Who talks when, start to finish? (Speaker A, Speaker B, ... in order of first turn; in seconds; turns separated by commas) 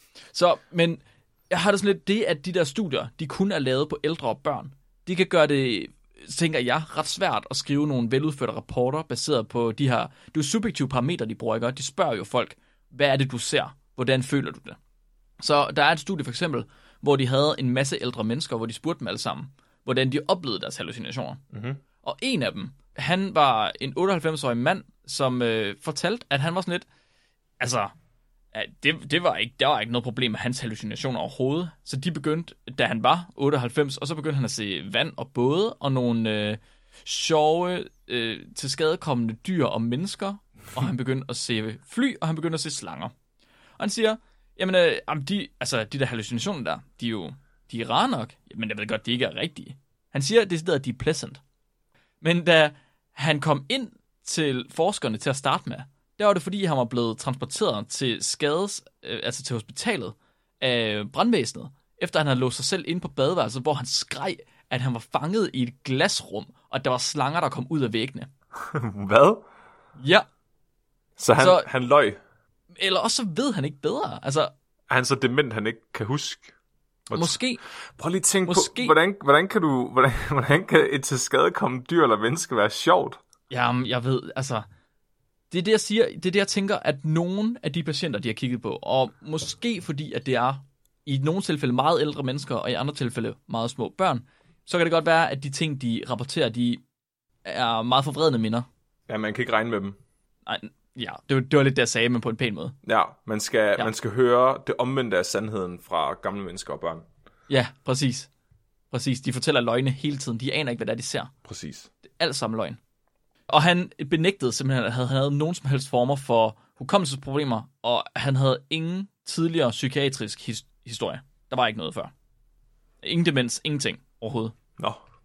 Speaker A: 0.3-14.8, Speaker A: 15.4-21.4, Speaker B: 21.5-21.8, Speaker A: 22.0-26.9, Speaker A: 27.6-27.9, Speaker A: 28.5-43.1, Speaker A: 43.8-51.4, Speaker A: 52.2-68.3, Speaker B: 68.5-69.4, Speaker A: 70.0-70.2, Speaker B: 71.2-72.2, Speaker A: 71.3-71.7, Speaker A: 72.7-74.5, Speaker B: 74.9-76.5, Speaker B: 77.1-77.4, Speaker A: 77.1-77.6, Speaker B: 78.0-83.2, Speaker A: 78.4-78.9, Speaker A: 83.5-84.7, Speaker A: 85.5-96.8, Speaker A: 97.4-98.7, Speaker B: 99.1-100.0, Speaker A: 100.5-102.8, Speaker B: 102.8-107.0, Speaker A: 107.5-108.3, Speaker A: 108.9-111.3, Speaker B: 111.4-111.9, Speaker A: 112.1-112.8, Speaker A: 113.5-122.1, Speaker A: 123.0-124.5